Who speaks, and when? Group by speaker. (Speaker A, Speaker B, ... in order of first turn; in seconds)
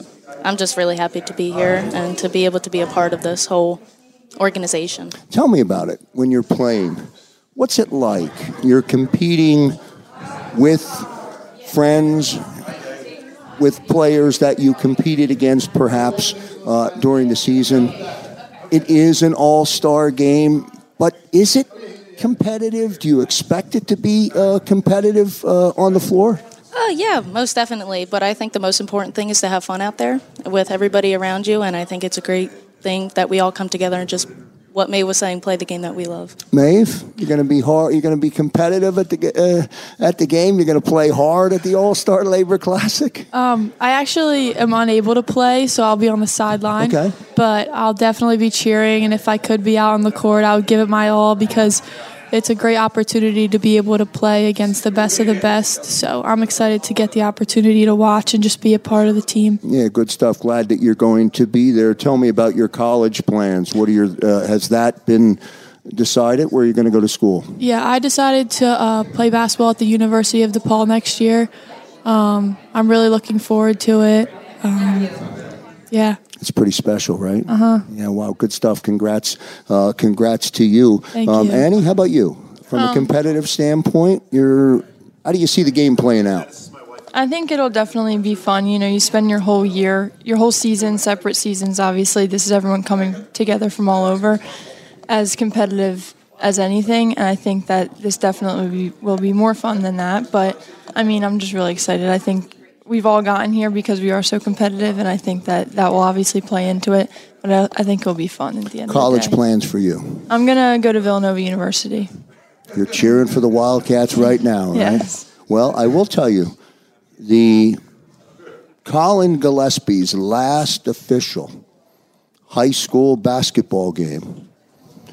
Speaker A: 0.4-3.8, 4.4-5.1, 26.7-36.4
Speaker B: 5.3-9.8, 10.5-11.1, 11.6-12.5, 13.6-18.0, 18.7-26.4, 36.5-43.3, 46.8-47.2, 59.6-67.6, 76.4-86.5, 108.9-110.3, 112.7-116.6, 117.2-117.8, 118.8-121.5, 122.5-124.5
Speaker C: 43.3-59.6, 67.6-71.5, 72.0-75.2, 75.9-76.2, 77.5-77.8, 81.1-81.7
Speaker D: 82.8-83.1, 87.1-94.4, 95.1-109.4, 110.3-112.1, 114.7-115.2